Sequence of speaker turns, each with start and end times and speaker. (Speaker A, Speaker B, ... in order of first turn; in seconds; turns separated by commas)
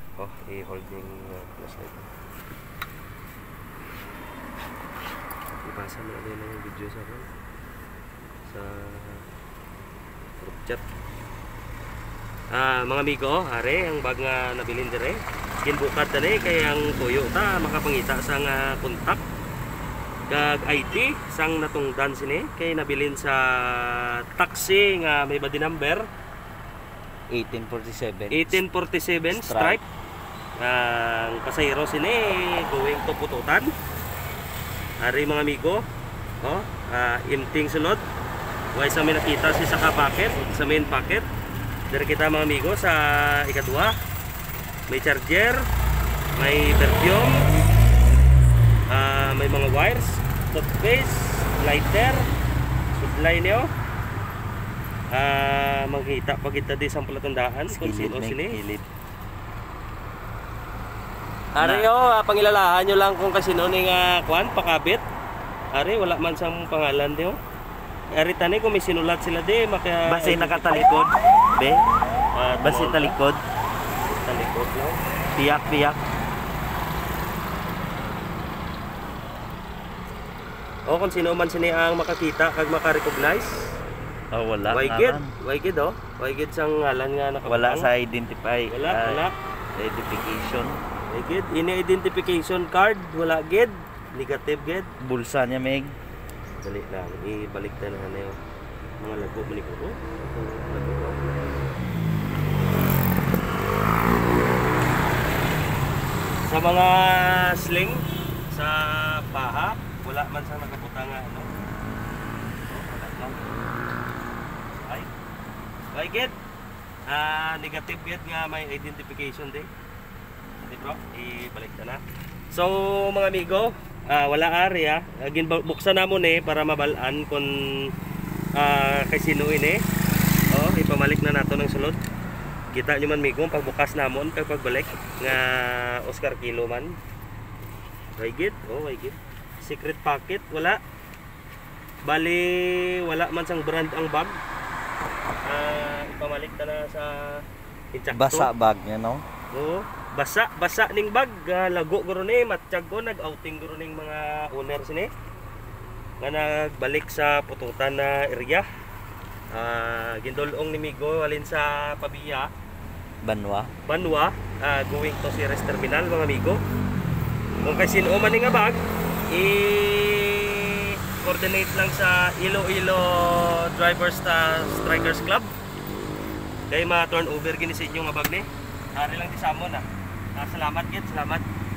Speaker A: 0.2-2.1, Speaker A: 5.6-7.3, Speaker A: 8.5-9.2, Speaker A: 10.4-10.8, Speaker A: 12.5-19.2, Speaker A: 20.3-26.1, Speaker B: 27.3-28.6, Speaker A: 28.3-29.8, Speaker B: 29.3-29.8, Speaker A: 30.6-33.7, Speaker A: 35.0-35.8, Speaker A: 36.4-38.0, Speaker A: 38.7-41.2, Speaker A: 41.9-43.9, Speaker A: 44.9-45.6, Speaker A: 46.4-47.4, Speaker A: 48.9-52.2, Speaker A: 52.9-53.7, Speaker A: 55.1-58.6, Speaker B: 57.7-58.8, Speaker A: 61.5-65.0, Speaker B: 61.6-61.9, Speaker A: 65.7-67.4, Speaker A: 68.1-70.9, Speaker B: 70.1-71.8, Speaker A: 72.3-73.2, Speaker B: 72.6-73.4, Speaker A: 74.1-75.0, Speaker B: 75.3-76.0, Speaker A: 80.9-83.5, Speaker B: 84.3-85.3, Speaker A: 84.7-87.9, Speaker B: 87.4-89.2, Speaker A: 88.7-89.3, Speaker B: 89.8-90.8, Speaker A: 91.1-94.9, Speaker B: 95.0-95.9, Speaker A: 96.6-98.3, Speaker A: 99.0-101.8, Speaker A: 106.5-111.5, Speaker A: 112.7-113.5, Speaker A: 114.8-115.1, Speaker A: 115.9-116.3, Speaker A: 117.1-119.7, Speaker A: 120.6-127.9, Speaker A: 128.6-129.8, Speaker A: 130.5-132.0, Speaker A: 132.7-136.9, Speaker A: 138.2-140.8, Speaker A: 142.0-144.4, Speaker A: 145.4-148.5, Speaker B: 148.1-149.2, Speaker A: 149.5-155.1, Speaker A: 156.2-158.6, Speaker A: 159.5-162.5, Speaker B: 163.2-163.7, Speaker A: 163.9-166.6, Speaker A: 167.6-175.5, Speaker A: 176.7-179.8, Speaker A: 180.3-181.4